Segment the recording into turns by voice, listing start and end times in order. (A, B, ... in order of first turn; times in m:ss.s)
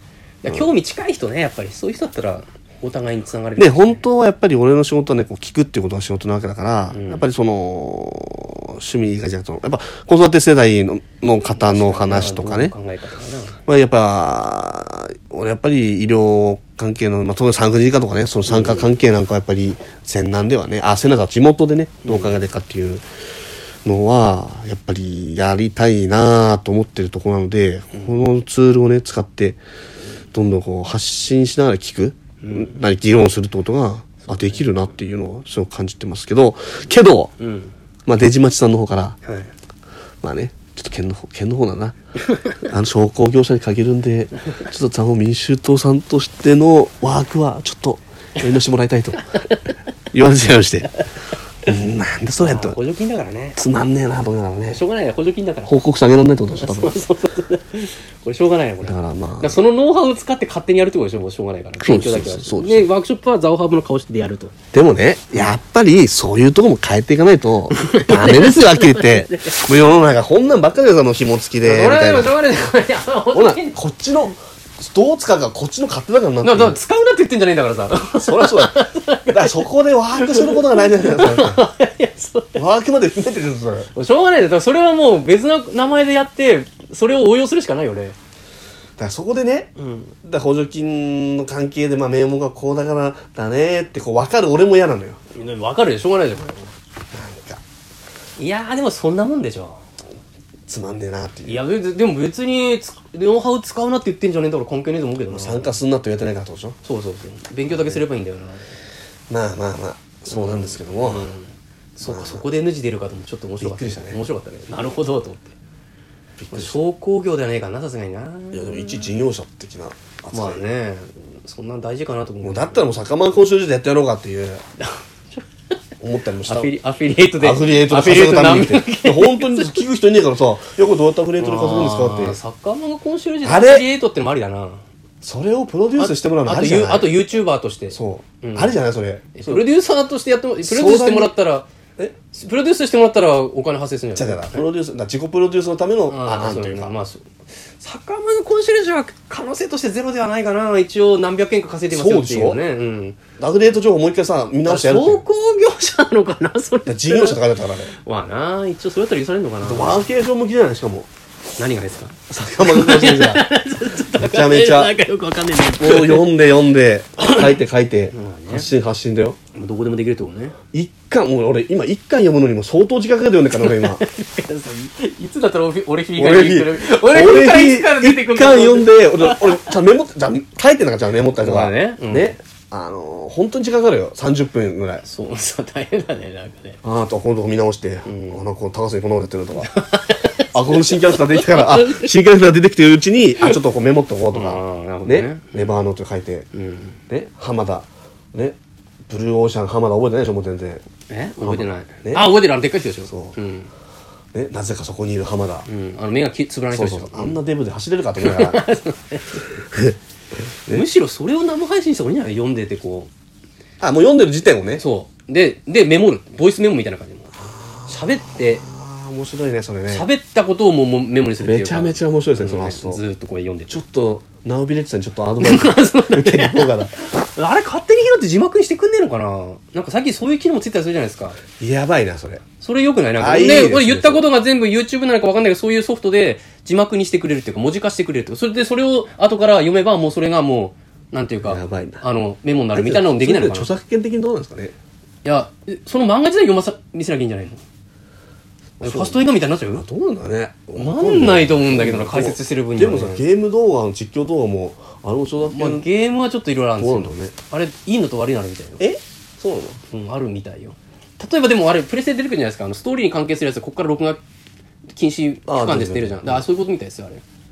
0:00.4-0:04.0 A
0:03.6-0:12.7 B
0:06.9-0:07.2 A
0:11.5-0:13.6 A
0:13.7-0:23.0 B
0:18.5-0:18.9 A
0:22.0-0:22.4 A
0:23.8-0:29.6 B
0:30.3-0:37.3 B
0:32.4-0:32.8 A
0:34.3-0:34.7 A
0:37.4-0:37.7 A
0:38.1-0:39.2 B
0:39.2-0:39.5 A
0:40.2-0:42.0 B
0:42.2-0:42.7 A
0:42.6-0:49.4 B
0:49.3-0:49.7 A
0:50.1-0:50.9 B
0:51.6-0:52.8 B
0:52.4-0:53.6 A
0:53.6-0:54.8 B
0:54.7-0:55.8 A
0:55.7-0:57.0 B
0:56.6-1:04.5 A
0:58.8-0:59.6 B
1:01.8-1:02.9 B
1:04.7-1:12.4 B
1:07.7-1:09.6 A
1:11.6-1:13.8 A
1:13.3-1:16.8 B
1:16.4-1:19.6 A
1:18.2-1:21.6 B
1:20.2-1:22.6 A
1:22.6-1:23.9 B
1:24.0-1:28.2 A
1:29.0-1:29.7 B
1:29.8-1:30.1 A
1:30.2-1:35.2 B
1:35.3-1:36.7 A
1:37.1-1:37.6 B
1:38.4-1:39.8 A
1:40.7-1:41.6 B
1:41.5-1:45.8 A
1:45.3-1:46.8 B
1:46.8-1:48.7 A
1:47.7-1:48.0 B
1:49.3-1:51.3 B
1:50.3-1:55.5 A
1:52.0-1:52.4 B
1:53.6-1:54.2 B
1:56.4-1:56.8 B
1:56.5-1:59.1 A
1:58.5-2:00.6 B
2:00.3-2:02.9 A
2:02.4-2:04.6 B
2:04.8-2:05.4 A
2:06.0-2:06.7 B
2:06.4-2:09.8 A
2:07.4-2:12.4 B
2:11.4-2:14.8 A
2:13.4-2:13.9 B
2:15.2-2:17.2 B
2:16.0-2:18.8 A
2:17.9-2:19.7 B
2:19.4-2:24.6 A
2:20.6-2:21.3 B
2:24.2-2:26.9 B
2:26.1-2:33.2 A
2:31.9-2:32.6 B
2:33.4-2:35.2 B
2:34.7-2:40.1 A
2:36.9-2:37.9 B
2:39.6-2:41.1 B
2:41.6-2:46.3 A
2:42.3-2:43.5 B
2:44.1-2:45.0 B
2:45.8-2:49.4 B
2:47.2-2:47.5 A
2:48.1-2:48.7 A
2:49.6-2:50.6 A
2:50.7-2:54.0 B
2:53.6-2:59.7 A
2:56.2-3:05.0 B
3:01.4-3:02.4 A
3:05.0-3:06.8 A
3:06.8-3:09.7 B
3:08.1-3:08.4 A
3:09.6-3:12.1 A
3:10.5-3:16.5 B
3:14.3-3:15.8 A
3:16.5-3:17.0 A
3:17.1-3:20.8 B
3:21.1-3:23.7 A
3:21.4-3:22.3 B
3:23.1-3:23.4 B
3:24.3-3:25.7 B
3:25.7-3:27.4 A
3:26.7-3:28.6 B
3:28.2-3:29.6 A
3:29.6-3:30.0 B
3:30.7-3:33.1 A
3:33.8-3:34.8 B
3:34.8-3:37.3 A
3:37.4-3:40.1 B
3:37.9-3:38.7 A
3:39.9-3:43.8 A
3:41.4-3:43.0 B
3:43.7-3:46.9 B
3:45.4-3:51.4 A
3:51.5-3:52.4 B
3:52.6-4:03.7 A
3:53.2-3:54.2 B
4:01.4-4:02.0 B
4:02.7-4:04.8 B
4:05.2-4:07.6 A
4:08.8-4:15.9 B
4:08.8-4:09.8 A
4:10.8-4:13.2 A
4:15.4-4:18.8 A
4:16.8-4:17.3 B
4:18.8-4:19.8 B
4:19.9-4:24.2 A
4:24.9-4:27.2 A
4:25.5-4:26.5 B